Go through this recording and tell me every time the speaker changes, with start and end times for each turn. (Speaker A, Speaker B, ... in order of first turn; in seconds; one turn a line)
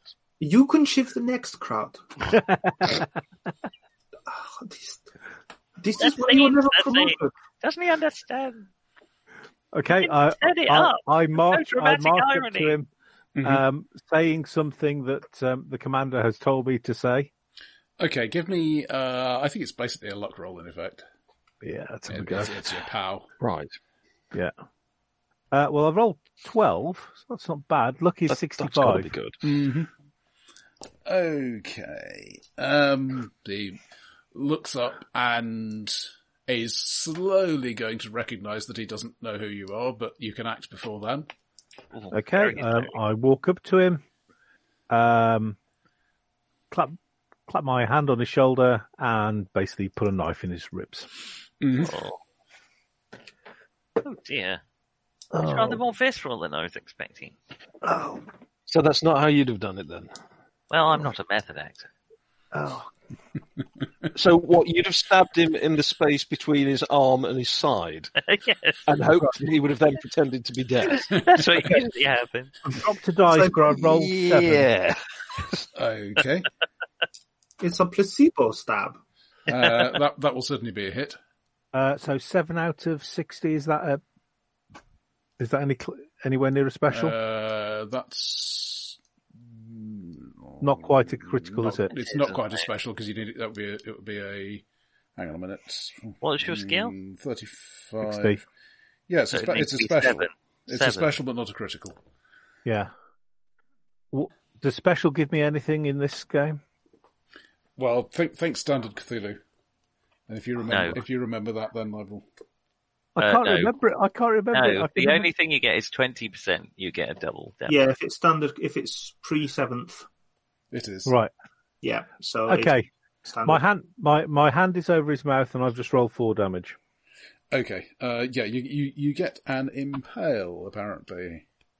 Speaker A: 0.4-2.3
Speaker B: 2.3-3.1
Speaker A: 4.3-5.0
Speaker A: 5.8-7.3
Speaker C: 6.0-8.7
Speaker B: 9.7-12.9
Speaker C: 10.0-12.7
Speaker D: 13.3-13.6
Speaker B: 13.4-17.3
Speaker D: 18.0-21.0
Speaker B: 21.6-22.5
Speaker D: 22.1-23.3
Speaker E: 23.4-23.7
Speaker B: 25.5-29.1
Speaker E: 28.3-29.4
Speaker D: 29.4-29.9
Speaker D: 31.0-33.8
Speaker D: 34.3-41.3
Speaker C: 42.0-42.9
Speaker B: 42.1-44.0
Speaker B: 44.9-45.6
Speaker B: 46.7-51.1
Speaker D: 51.6-52.0
Speaker C: 51.8-52.2
Speaker C: 54.0-54.6
Speaker E: 55.3-55.8
Speaker C: 55.4-57.3
Speaker E: 58.7-60.1
Speaker C: 60.7-61.9
Speaker E: 64.1-68.1
Speaker C: 68.2-68.8
Speaker E: 68.8-71.2
Speaker C: 71.1-72.5
Speaker D: 71.2-71.5
Speaker B: 72.8-74.7
Speaker A: 73.3-73.7
Speaker E: 73.8-75.6
Speaker D: 75.7-76.5
Speaker A: 77.6-79.0
Speaker D: 79.5-81.2
Speaker B: 81.7-84.0
Speaker B: 85.4-87.1
Speaker D: 86.9-94.6
Speaker B: 90.6-91.9
Speaker C: 91.9-92.6
Speaker D: 95.2-98.4
Speaker C: 96.2-96.9
Speaker B: 98.0-98.4
Speaker D: 99.1-102.0
Speaker C: 99.3-101.1
Speaker B: 102.6-102.9
Speaker B: 104.1-106.6
Speaker D: 107.8-109.4
Speaker D: 110.3-112.2
Speaker C: 110.7-111.0
Speaker B: 113.2-115.3
Speaker C: 113.2-113.7
Speaker C: 114.5-117.8
Speaker A: 117.7-120.0
Speaker D: 120.7-121.1
Speaker B: 121.0-121.3
Speaker A: 121.8-123.6
Speaker B: 122.5-122.9
Speaker B: 123.4-126.8
Speaker D: 127.5-131.4